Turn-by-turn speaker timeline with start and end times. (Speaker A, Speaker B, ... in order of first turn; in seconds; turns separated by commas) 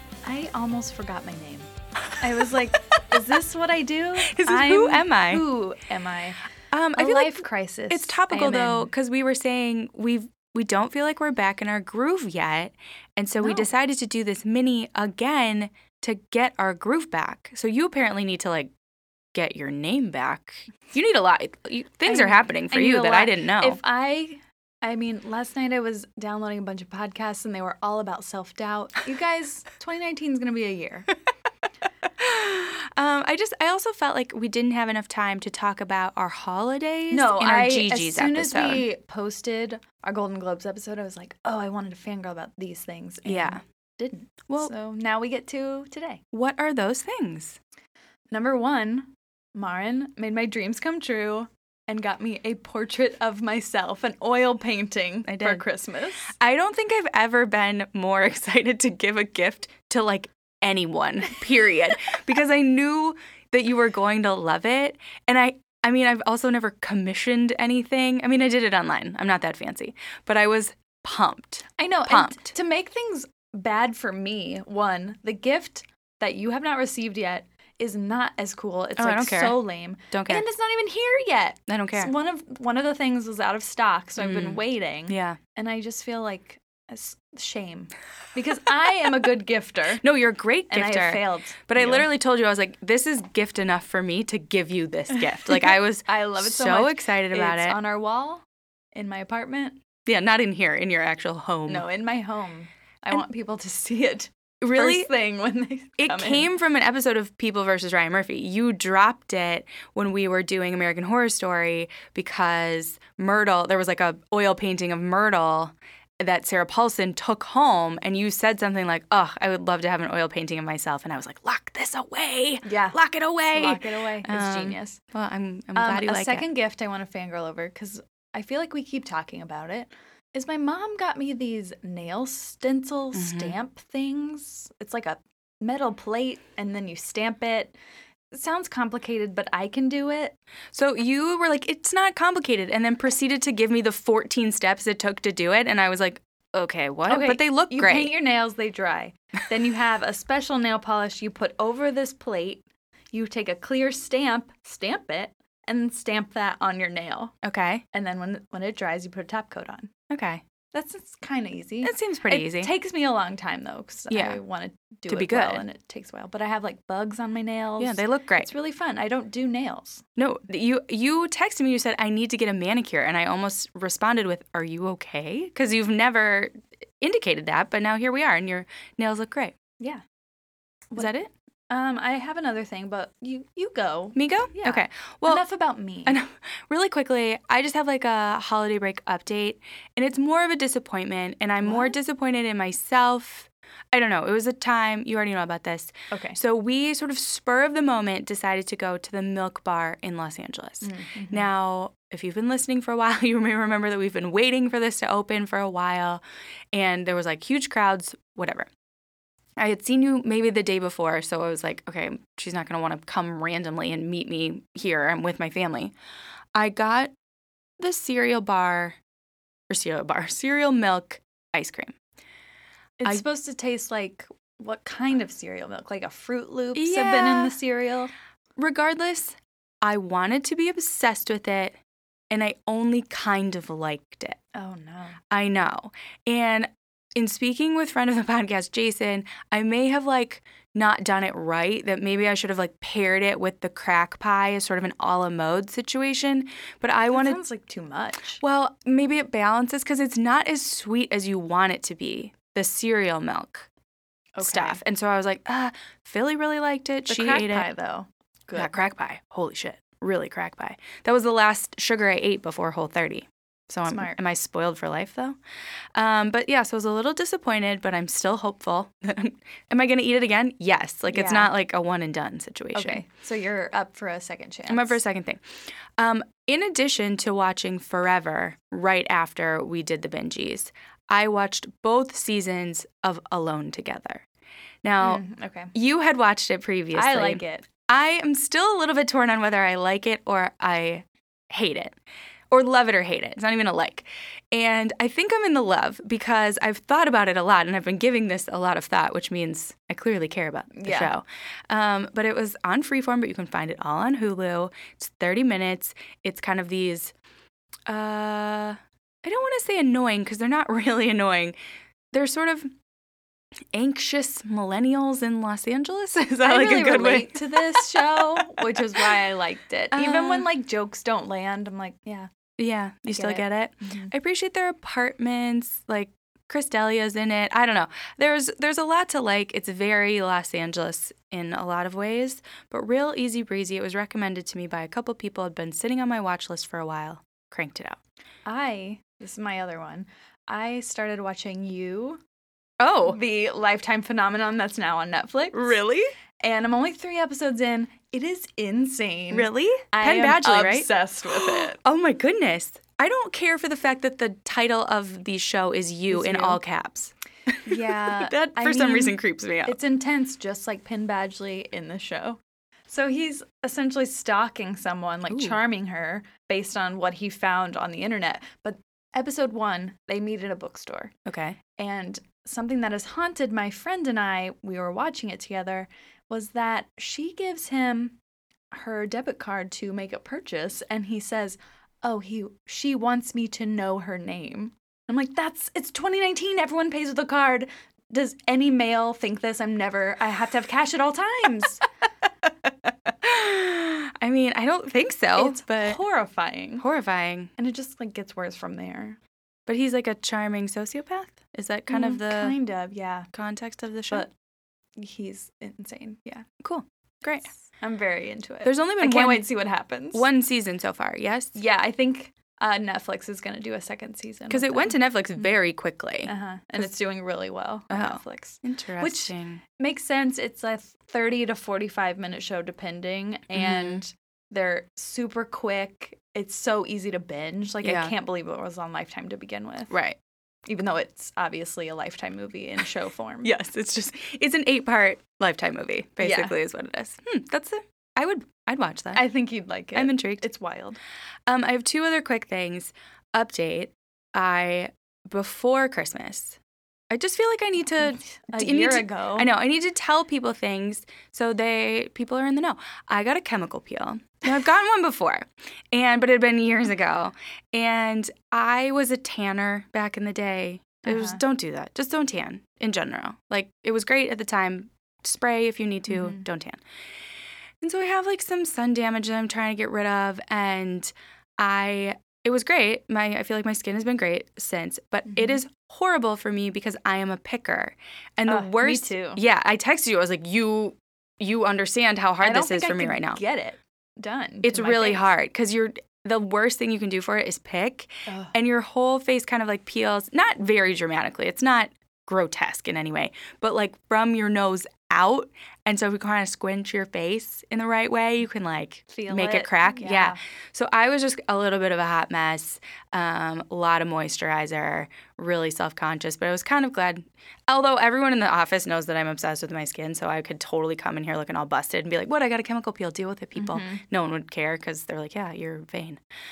Speaker A: 0.2-1.7, Speaker A: 2.2-6.4, Speaker B: 4.2-5.4, Speaker B: 6.7-18.7, Speaker A: 7.0-8.9, Speaker A: 13.4-13.7, Speaker B: 19.3-23.8, Speaker A: 22.1-31.1, Speaker B: 32.2-38.8, Speaker A: 37.1-46.2, Speaker B: 43.2-43.6, Speaker B: 44.5-44.7, Speaker B: 46.3-47.6, Speaker A: 48.3-56.3, Speaker B: 55.3-55.6, Speaker B: 56.4-72.5, Speaker A: 71.8-90.0, Speaker B: 79.0-79.6, Speaker B: 80.1-80.4, Speaker B: 81.7-82.1, Speaker B: 84.2-85.4, Speaker B: 90.0-97.8, Speaker A: 90.7-92.1, Speaker A: 95.4-98.4, Speaker A: 98.9-99.8, Speaker B: 100.0-101.8, Speaker A: 101.7-106.5, Speaker B: 104.6-105.1, Speaker B: 106.0-126.4, Speaker A: 122.6-123.0, Speaker A: 123.5-125.0, Speaker A: 125.7-137.8, Speaker B: 133.1-133.5, Speaker A: 138.3-140.3, Speaker B: 140.7-148.1, Speaker A: 147.1-157.3, Speaker B: 157.4-157.8, Speaker A: 157.9-159.9, Speaker B: 160.1-160.4, Speaker A: 160.7-170.0, Speaker B: 161.8-162.7, Speaker B: 164.1-164.4, Speaker B: 165.1-165.6, Speaker B: 167.8-168.5, Speaker B: 170.2-179.5, Speaker B: 181.0-181.3, Speaker A: 181.7-186.2, Speaker B: 184.1-185.4, Speaker B: 186.1-206.2, Speaker A: 191.6-192.0, Speaker A: 196.1-196.4, Speaker A: 200.8-201.5, Speaker B: 206.7-208.7, Speaker B: 209.6-215.9, Speaker B: 216.5-217.1, Speaker B: 217.8-219.0, Speaker B: 219.7-221.9, Speaker A: 223.0-228.1, Speaker B: 226.7-227.5, Speaker B: 228.6-231.8, Speaker B: 232.3-234.4, Speaker A: 234.5-235.2, Speaker B: 235.3-247.4, Speaker A: 247.1-248.4, Speaker B: 248.4-253.7, Speaker A: 254.3-254.8, Speaker B: 254.4-257.7, Speaker A: 257.1-258.8, Speaker B: 258.6-265.4, Speaker A: 263.9-264.1, Speaker B: 265.9-273.0, Speaker A: 271.1-271.5, Speaker A: 272.7-275.0, Speaker B: 274.7-275.4, Speaker B: 276.0-284.2, Speaker B: 284.8-285.2, Speaker A: 285.0-285.7, Speaker B: 285.7-291.9, Speaker A: 286.9-287.7, Speaker B: 292.5-307.1, Speaker A: 300.7-301.1, Speaker B: 307.9-311.6, Speaker B: 312.1-312.7, Speaker B: 313.7-318.2, Speaker A: 316.4-322.3, Speaker B: 319.9-320.5, Speaker B: 322.6-338.0, Speaker A: 323.1-324.1, Speaker A: 338.4-342.2, Speaker B: 342.8-343.2, Speaker A: 343.0-345.8, Speaker B: 345.5-346.1, Speaker A: 346.4-351.8, Speaker B: 349.3-359.8, Speaker A: 356.1-356.6, Speaker A: 357.6-371.1, Speaker B: 365.3-365.6, Speaker B: 371.2-371.6, Speaker A: 371.8-378.2, Speaker A: 378.7-391.8, Speaker B: 393.2-396.0, Speaker A: 395.4-396.8, Speaker B: 396.8-397.5, Speaker A: 397.6-399.2, Speaker B: 399.7-402.5, Speaker A: 401.9-403.3, Speaker B: 403.3-404.2, Speaker A: 405.0-406.5, Speaker B: 406.6-407.5, Speaker A: 407.8-410.2, Speaker B: 408.6-409.4, Speaker B: 410.1-411.6, Speaker A: 411.5-414.9, Speaker B: 414.5-416.3, Speaker A: 416.2-429.9, Speaker B: 417.9-419.6, Speaker B: 423.5-424.0, Speaker B: 427.8-428.1, Speaker B: 429.9-430.2, Speaker A: 430.6-433.5, Speaker B: 433.4-439.2, Speaker A: 436.2-436.5, Speaker A: 439.1-441.0, Speaker B: 439.9-440.4, Speaker B: 441.5-446.6, Speaker B: 447.1-466.8, Speaker A: 448.5-449.5, Speaker A: 461.1-461.4, Speaker A: 466.1-466.4, Speaker B: 467.8-483.4, Speaker A: 475.3-475.6, Speaker A: 478.5-479.4, Speaker A: 482.4-485.3, Speaker B: 484.6-516.2, Speaker A: 488.3-488.5, Speaker A: 499.1-500.4, Speaker A: 513.6-514.0